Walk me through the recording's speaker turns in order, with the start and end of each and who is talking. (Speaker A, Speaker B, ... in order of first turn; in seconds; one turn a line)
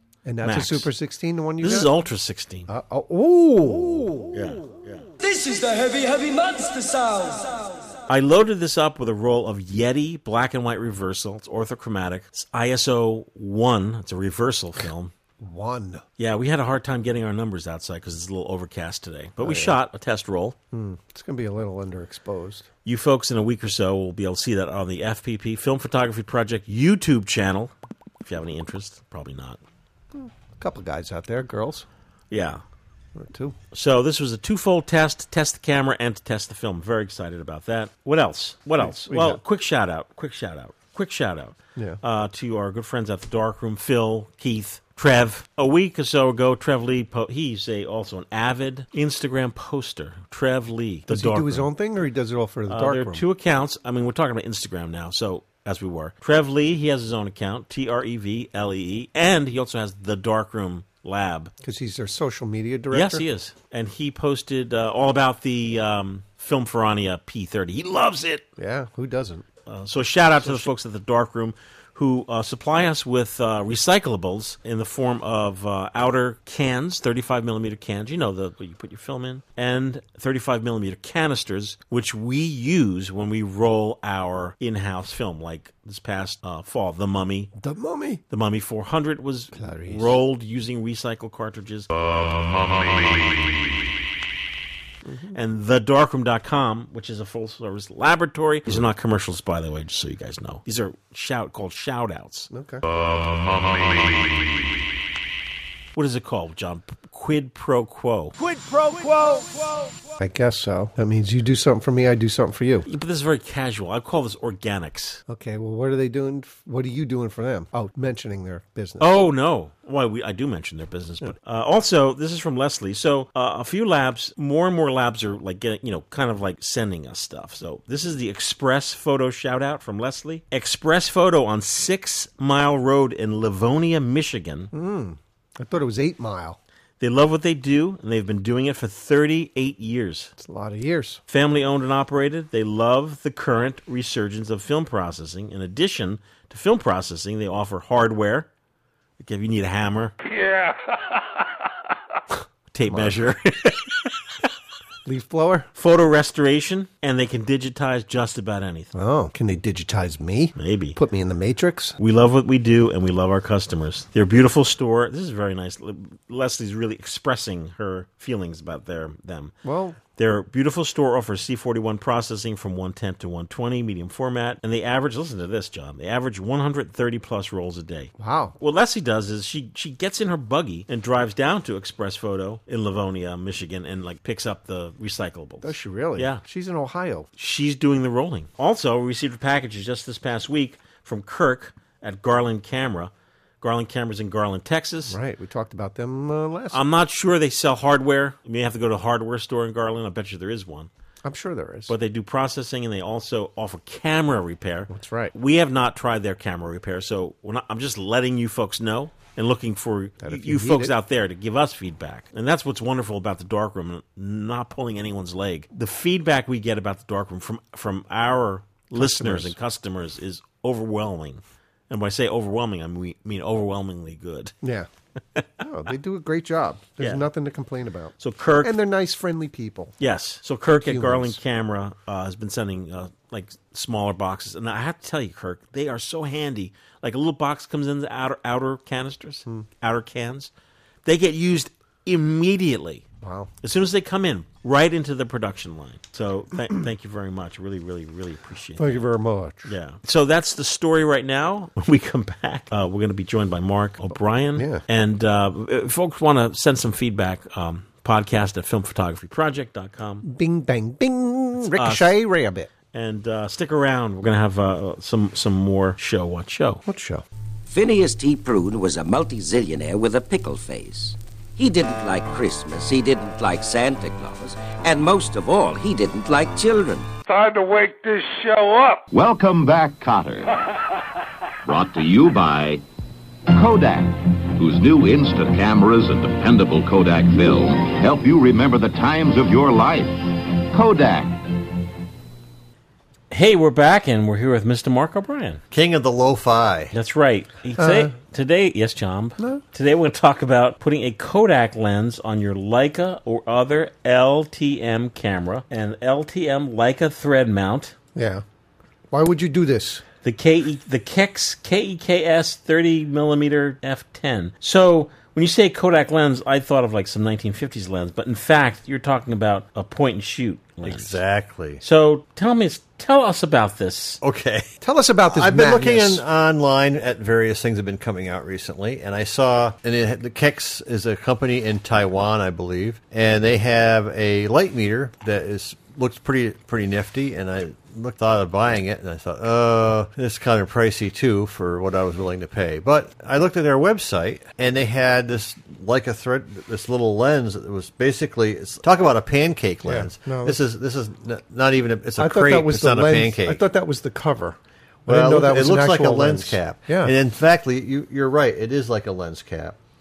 Speaker A: 0.2-1.9
Speaker B: 0.4-0.9
Speaker B: 1.6-2.7
Speaker A: 2.7-4.4
Speaker B: 4.3-5.0
Speaker C: 5.2-8.0
Speaker B: 8.1-15.1
Speaker A: 15.4-16.0
Speaker B: 16.2-20.6
Speaker A: 19.4-19.7
Speaker A: 20.7-22.6
Speaker B: 22.8-27.7
Speaker B: 28.2-29.6
Speaker A: 30.1-31.9
Speaker B: 32.3-32.6
Speaker A: 33.1-33.5
Speaker B: 33.7-51.7
Speaker A: 38.8-39.4
Speaker A: 51.1-53.2
Speaker B: 52.7-61.5
Speaker A: 61.6-63.2
Speaker B: 62.9-68.5
Speaker A: 68.6-69.4
Speaker B: 69.7-87.5
Speaker A: 70.4-70.7
Speaker A: 87.6-88.2
Speaker B: 88.3-91.9
Speaker A: 89.5-90.2
Speaker A: 95.0-95.4
Speaker B: 95.3-102.5
Speaker A: 102.5-102.8
Speaker B: 105.9-108.3
Speaker B: 108.9-109.3
Speaker A: 110.2-112.8
Speaker B: 112.9-115.2
Speaker A: 115.3-119.1
Speaker B: 119.0-134.7
Speaker A: 134.7-136.6
Speaker B: 137.0-140.3
Speaker A: 140.4-141.2
Speaker B: 141.3-148.5
Speaker B: 149.2-150.1
Speaker D: 150.2-151.4
Speaker B: 152.7-154.2
Speaker A: 155.0-155.7
Speaker B: 155.8-158.9
Speaker A: 158.9-161.9
Speaker B: 160.6-161.0
Speaker B: 162.0-169.5
Speaker A: 169.6-170.0
Speaker B: 170.2-186.4
Speaker A: 178.2-178.5
Speaker A: 185.6-187.3
Speaker B: 187.4-195.2
Speaker A: 195.1-196.8
Speaker B: 196.7-200.9
Speaker A: 201.2-201.9
Speaker B: 201.9-224.5
Speaker A: 204.9-205.3
Speaker A: 210.2-210.9
Speaker A: 218.9-219.6
Speaker A: 224.6-224.9
Speaker A: 225.6-229.9
Speaker B: 227.0-227.2
Speaker B: 228.2-228.7
Speaker B: 230.0-240.5
Speaker A: 230.8-231.4
Speaker B: 241.0-243.0
Speaker A: 243.2-243.5
Speaker B: 243.6-249.0
Speaker A: 248.8-249.7
Speaker B: 249.7-260.2
Speaker A: 254.6-254.8
Speaker A: 260.2-262.7
Speaker B: 261.7-262.1
Speaker B: 262.9-266.8
Speaker A: 266.9-267.2
Speaker E: 267.7-277.1
Speaker D: 277.3-279.0
Speaker F: 279.1-280.5
Speaker F: 281.6-282.8
Speaker F: 283.5-291.7
Speaker B: 293.3-295.6
Speaker G: 295.7-296.9
Speaker B: 296.9-307.9
Speaker A: 297.8-298.1
Speaker A: 308.1-308.4
Speaker A: 309.1-310.0
Speaker B: 310.2-321.2
Speaker G: 320.8-321.8
Speaker B: 321.8-324.2
Speaker G: 324.2-324.7
Speaker A: 324.8-326.2
Speaker G: 325.3-353.6
Speaker A: 349.8-350.6
Speaker A: 352.2-357.1
Speaker G: 355.1-359.8